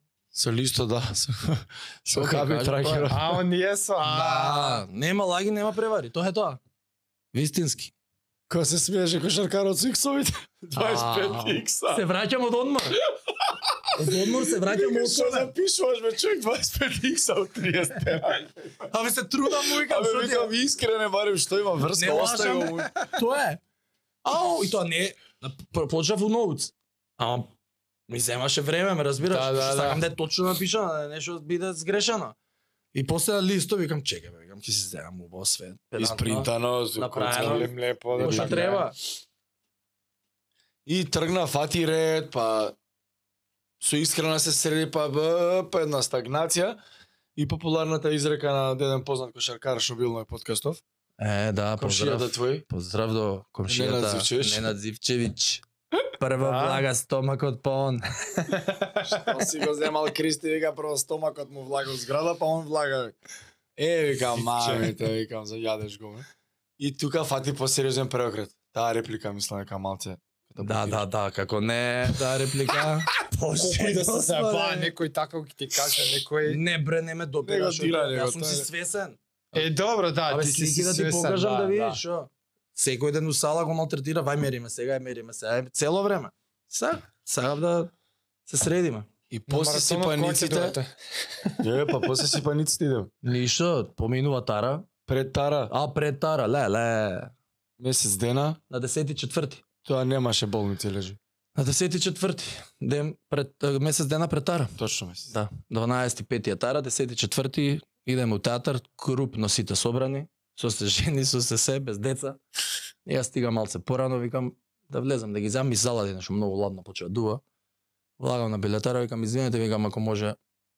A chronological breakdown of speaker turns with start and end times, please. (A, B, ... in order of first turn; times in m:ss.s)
0:00.3-0:03.4 A
0:02.1-0:03.1 B
0:03.1-0:04.8 C
0:04.0-0:06.6 B
0:07.3-0:07.9 B
0:08.5-0:12.0 A
0:10.8-0:13.0 B
0:13.3-0:18.8 A
0:13.9-0:15.5 B
0:18.9-0:20.5 B
0:19.6-0:22.9 A
0:21.9-0:23.6 B
0:24.2-0:27.5 B
0:28.1-0:32.3 B
0:29.3-0:30.0 C
0:32.9-0:38.9 B
0:36.0-0:38.7 A
0:37.2-0:38.8 C
0:40.8-0:42.8 A
0:43.8-0:46.8 A
0:47.4-0:50.8 A
0:51.2-0:55.6 B
0:51.8-0:52.6 A
0:53.7-0:54.7 A
0:56.2-0:58.5 B
0:56.4-0:56.8 C
0:58.4-0:59.3 C
0:59.1-1:03.2 A
1:03.8-1:06.3 A
1:06.8-1:11.0 A
1:10.6-1:14.9 B
1:13.6-1:16.6 C
1:16.4-1:19.7 B
1:17.4-1:18.7 A
1:19.5-1:22.0 C
1:20.3-1:27.9 B
1:28.5-1:29.1 B
1:29.3-1:30.8 A
1:29.5-1:30.9 C
1:31.6-1:33.1 A
1:33.2-1:34.9 B
1:35.1-1:35.7 A
1:35.7-1:37.3 B
1:37.8-1:38.6 A
1:38.7-1:39.6 B
1:39.8-1:41.2 A
1:41.6-1:44.7 B
1:44.8-1:45.3 A
1:45.3-1:52.4 B
1:53.0-1:57.4 B
1:58.2-2:00.4 B